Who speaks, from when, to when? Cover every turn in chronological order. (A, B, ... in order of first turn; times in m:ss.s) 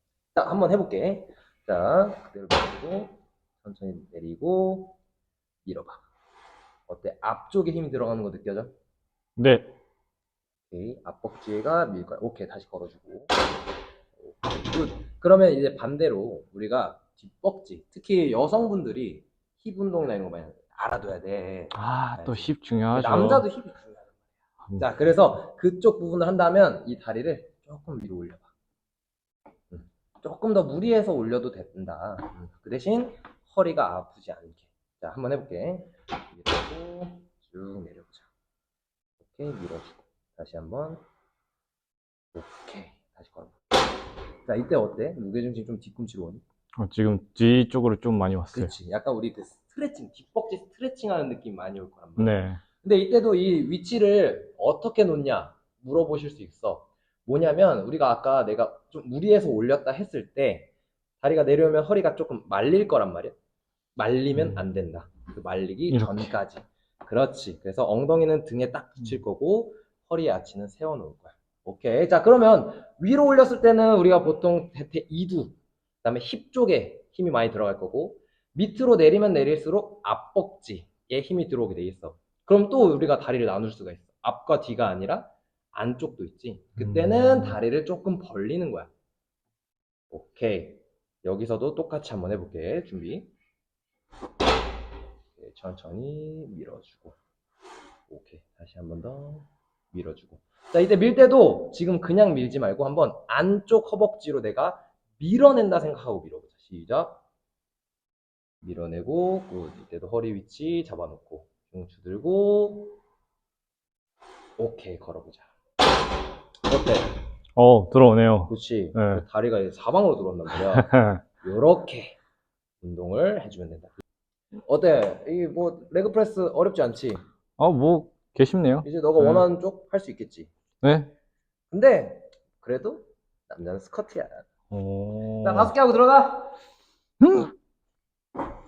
0:00.4-0:05.0 A
0:05.6-0:06.1 A
0:06.9-0:08.7 A
0:09.4-0:09.8 B
0:10.7-0:13.4 A
0:14.2-0:24.1 A
0:21.7-0:23.5 B
0:24.8-0:28.5 A
0:29.7-0:38.3 A
0:39.2-0:41.0 A
0:42.3-0:43.6 A
0:44.5-0:46.4 A
0:46.8-0:48.7 B
0:48.5-1:03.4 A
0:52.2-0:52.6 B
1:04.0-1:28.9 A
1:04.3-1:04.6 B
1:05.9-1:06.3 B
1:26.8-1:27.6 B
1:30.1-1:33.3 A
1:35.4-1:37.2 A
1:38.1-1:47.2 A
1:48.6-1:53.0 A
1:54.6-1:55.5 A
1:56.7-1:57.1 A
1:57.6-1:59.2 B
1:58.5-2:02.2 A
2:00.5-2:01.2 B
2:02.8-2:04.0 A
2:04.7-2:07.2 A
2:07.6-2:09.5 B
2:08.8-2:10.5 A
2:10.8-2:11.1 B
2:11.7-2:14.5 A
2:14.7-2:15.7 B
2:15.4-2:16.5 A
2:17.2-2:17.5 B